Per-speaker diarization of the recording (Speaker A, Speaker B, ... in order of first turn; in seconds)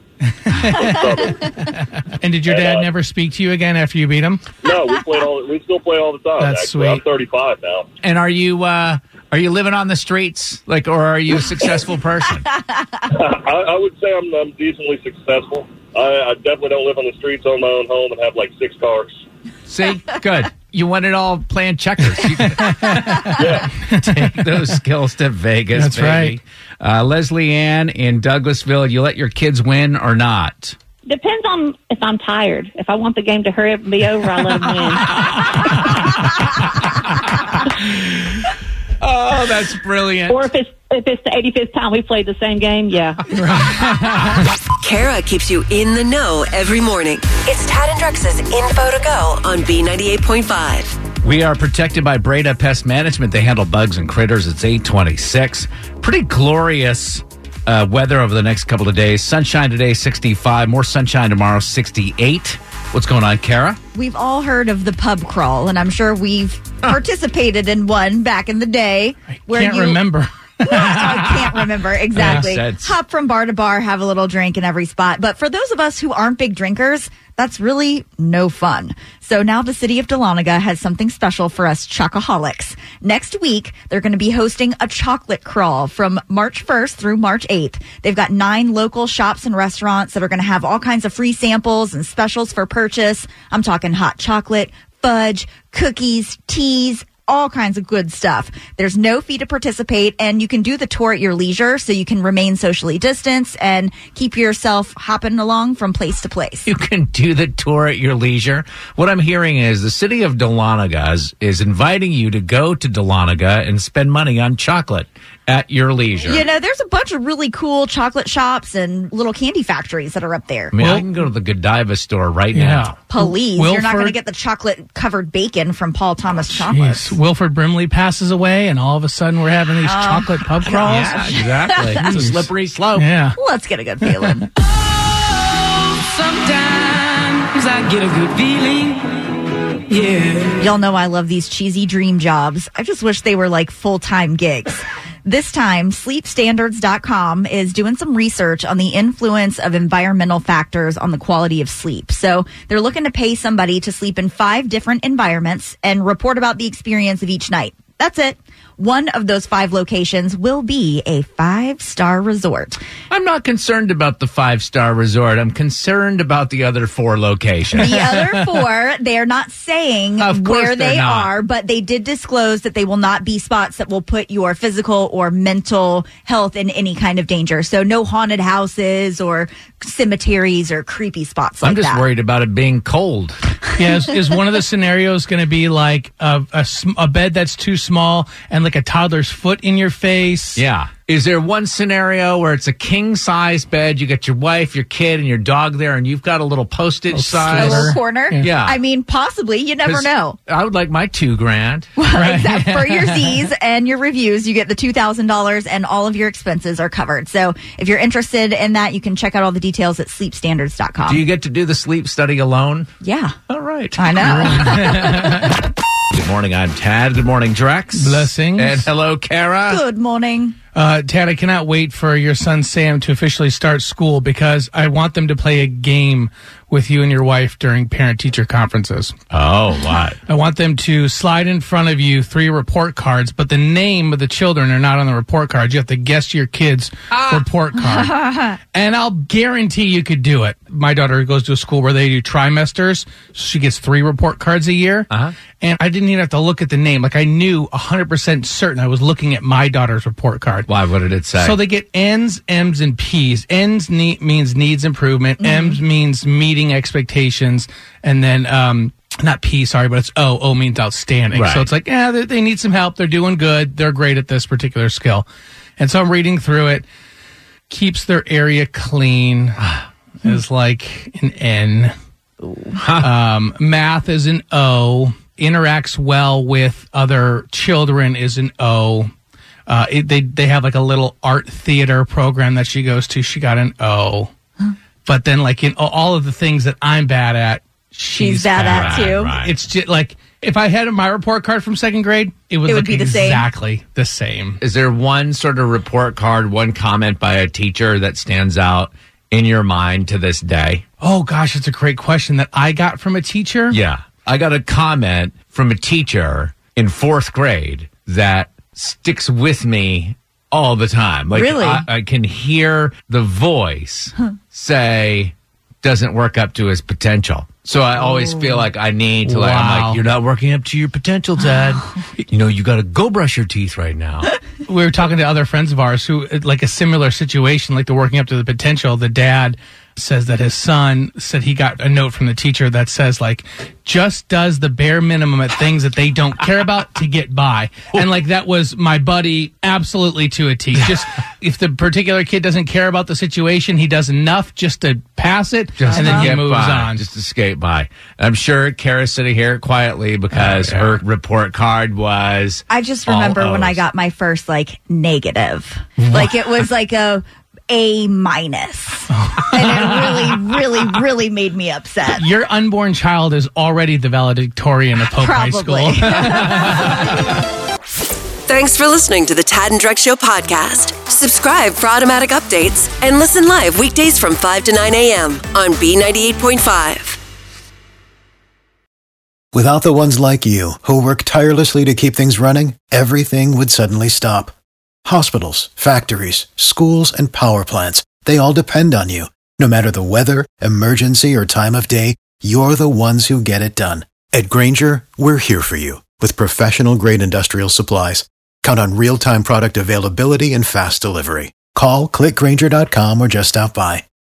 Speaker A: 0.4-4.5, 6.4-7.0, 22.4-24.7, 25.8-26.4, 43.3-44.4, 69.3-71.0, 72.2-72.5, 120.8-121.0, 122.5-124.2, 126.5-131.2, 132.0-133.4, 167.9-168.2, 183.8-190.6, 197.1-198.5, 202.1-203.4, 214.2-215.6, 218.0-218.9, 220.7-229.2, 230.3-238.2, 238.7-245.1, 245.6-250.7, 251.4-265.3, 265.8-266.8, 267.7-269.6, 270.2-271.9, 273.0-279.1, 279.7-284.3, 285.1-294.6, 301.0-303.8, 319.2-320.0, 324.7-347.0, 350.3-351.0, 359.1-360.4, 362.1-367.0
Speaker B: 0.7-1.5, 2.5-2.9, 4.6-7.9, 13.1-19.2, 23.4-23.7
Speaker C: 8.0-12.5, 19.7-23.3, 23.9-30.8, 35.1-38.1, 39.0-40.5, 51.2-63.8, 70.7-73.0, 106.7-116.5, 120.7-123.0, 130.8-133.1, 163.1-168.1, 170.2-171.3, 181.6-183.4, 190.6-198.8, 199.8-201.9, 211.1-212.9, 213.5-215.5, 216.1-219.8, 229.3-230.2, 237.1-237.4, 245.1-245.3, 250.7-251.6, 261.3-261.7, 272.8-273.1, 288.6-289.5, 294.6-300.9, 303.7-324.3, 345.8-353.8
Speaker D: 31.1-35.9, 40.3-43.3
Speaker E: 44.8-51.0, 368.5-377.2
Speaker F: 63.9-70.0, 70.6-106.7, 116.3-120.7, 123.1-127.2, 129.8-132.0, 133.4-134.5, 140.6-162.8, 167.8-182.0, 197.5-200.4, 202.0-211.2, 213.0-213.4, 214.0-215.3, 219.7-220.6, 237.9-238.6, 255.4-255.8, 288.1-289.3, 292.7-293.5, 311.3-311.9, 345.9-346.3, 352.7-362.2, 365.2-367.1
Speaker G: 136.0-139.1, 139.9-140.7
Speaker H: 379.5-384.5, 385.1-404.0